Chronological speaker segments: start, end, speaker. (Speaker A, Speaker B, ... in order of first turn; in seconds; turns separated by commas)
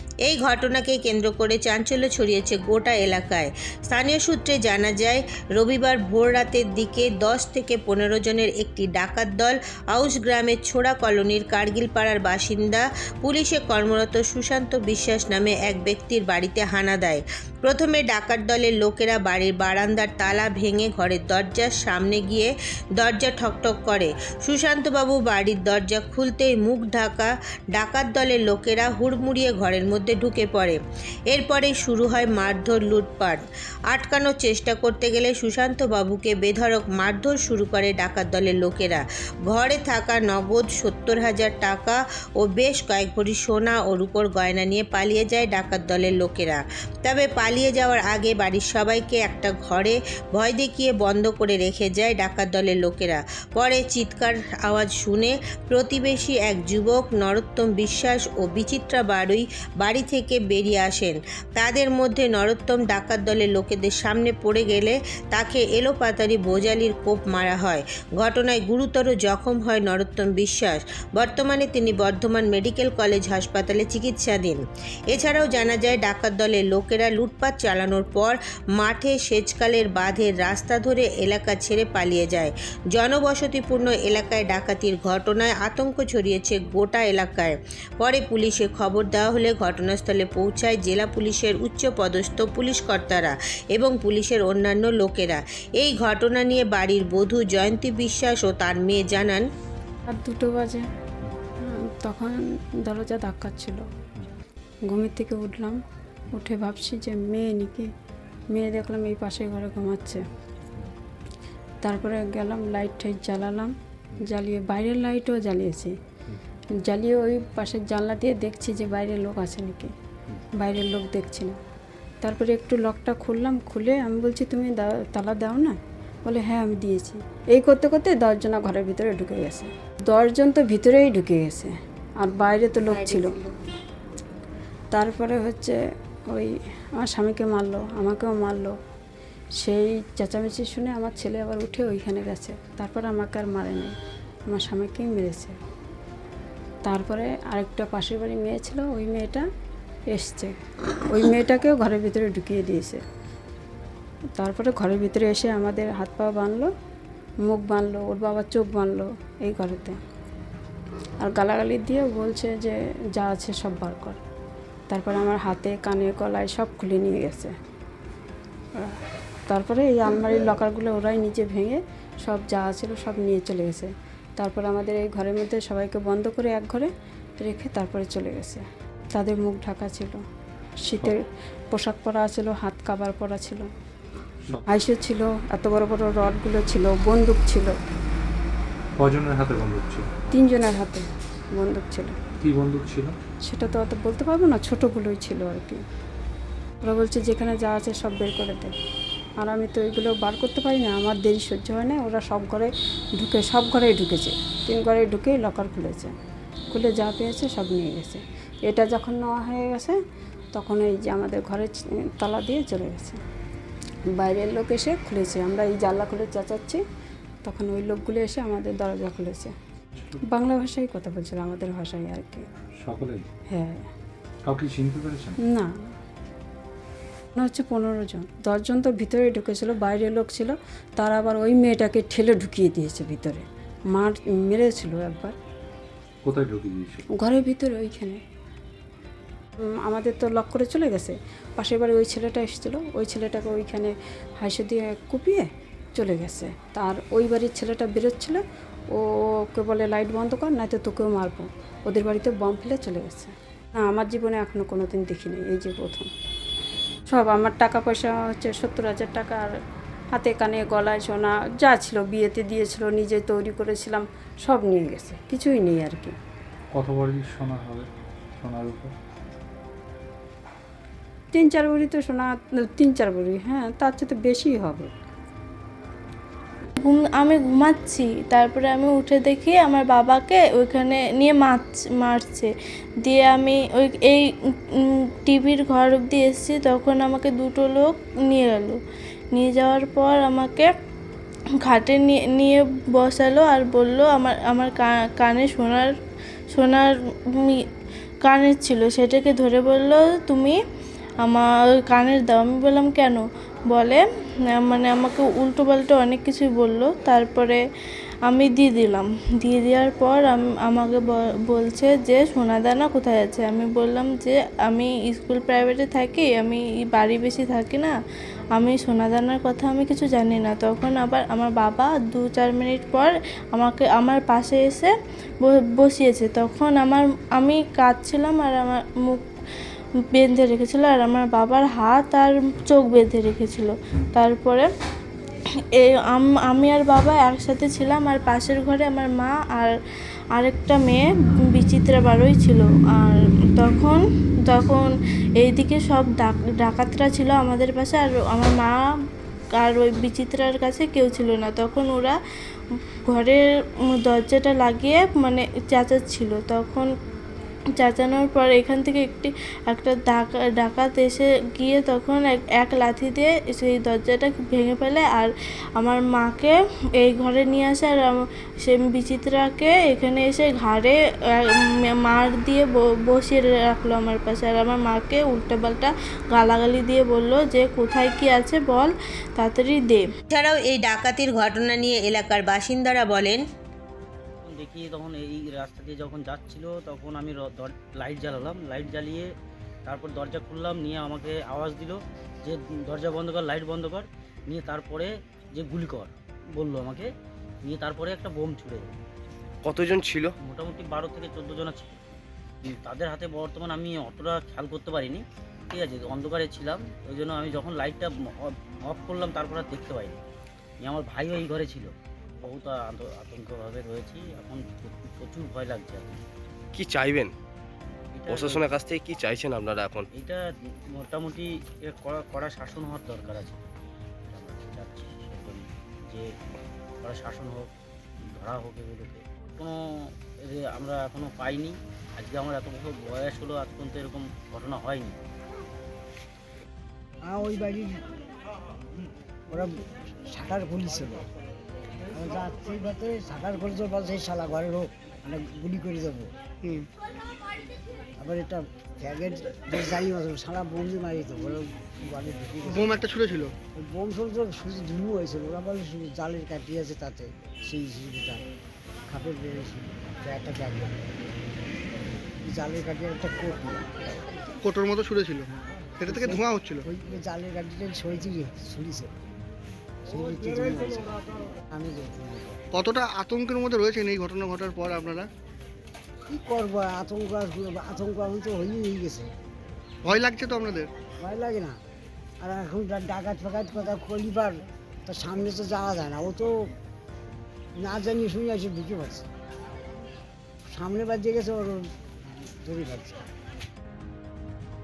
Speaker A: 0.2-30.8, Speaker A: 31.3-99.5, Speaker B: 100.1-100.8, Speaker B: 101.7-103.8, Speaker B: 104.9-105.8, Speaker B: 106.3-107.9, Speaker B: 108.5-110.2, Speaker B: 111.8-115.9, Speaker B: 116.8-119.9, Speaker B: 120.6-121.6, Speaker B: 122.2-133.4, Speaker B: 134.9-135.8, Speaker B: 136.3-138.8, Speaker B: 139.6-143.9, Speaker B: 144.5-145.6, Speaker B: 146.9-149.5, Speaker B: 150.1-150.6, Speaker B: 151.1-153.0, Speaker B: 154.4-156.7, Speaker B: 157.5-160.0, Speaker B: 161.2-164.2, Speaker B: 164.9-167.5, Speaker B: 168.8-178.6, Speaker B: 179.1-180.2, Speaker B: 180.8-183.7, Speaker B: 184.7-187.8, Speaker C: 189.0-190.1, Speaker B: 190.3-191.1, Speaker B: 191.6-192.2, Speaker C: 192.4-193.2, Speaker B: 193.5-195.8, Speaker B: 196.8-198.7, Speaker B: 199.4-206.1, Speaker B: 206.7-210.0, Speaker B: 210.5-213.2, Speaker B: 214.1-216.8, Speaker B: 217.4-219.5, Speaker B: 220.3-222.5, Speaker C: 222.8-223.3, Speaker B: 223.5-223.8, Speaker C: 224.4-225.4, Speaker B: 225.4-225.9, Speaker B: 227.4-235.3, Speaker C: 236.2-237.1, Speaker B: 237.2-238.2, Speaker B: 239.8-248.4, Speaker B: 248.9-256.1, Speaker B: 257.1-259.6, Speaker B: 260.1-266.1, Speaker C: 266.7-267.9, Speaker C: 268.4-268.9, Speaker B: 271.3-274.9, Speaker D: 276.8-282.5, Speaker D: 283.1-288.8, Speaker D: 289.3-290.7, Speaker D: 291.6-295.9, Speaker D: 296.5-297.6, Speaker D: 298.2-300.6, Speaker D: 301.2-304.0, Speaker D: 304.6-307.6, Speaker D: 308.3-317.9, Speaker D: 318.6-324.9, Speaker D: 325.4-329.2, Speaker D: 330.1-334.7, Speaker D: 335.8-339.7, Speaker D: 340.4-348.8, Speaker D: 349.6-352.2, Speaker D: 353.1-353.4, Speaker D: 354.0-356.9, Speaker D: 357.8-371.5, Speaker D: 372.1-380.1, Speaker A: 380.3-383.4, Speaker E: 384.4-389.3, Speaker E: 389.9-397.1, Speaker E: 397.6-399.0, Speaker F: 399.6-400.3, Speaker E: 400.4-410.2, Speaker E: 410.8-416.2, Speaker F: 416.7-417.3, Speaker E: 418.1-418.9, Speaker F: 418.3-420.1, Speaker E: 420.1-423.6, Speaker E: 424.3-426.4, Speaker E: 427.0-427.7, Speaker E: 428.3-435.2, Speaker G: 437.2-438.0, Speaker G: 439.5-441.3, Speaker G: 442.1-446.3, Speaker G: 448.2-453.2, Speaker H: 452.7-453.5, Speaker G: 453.7-458.4, Speaker G: 459.1-461.0, Speaker G: 462.4-464.4, Speaker H: 464.6-465.4, Speaker H: 466.0-466.8, Speaker G: 466.1-469.1, Speaker G: 470.1-471.1, Speaker G: 471.7-472.6, Speaker H: 472.7-475.3, Speaker G: 476.3-479.3, Speaker H: 480.1-480.9, Speaker G: 481.2-481.8, Speaker G: 482.4-486.7, Speaker G: 487.8-489.3, Speaker G: 490.7-491.9, Speaker G: 492.6-493.2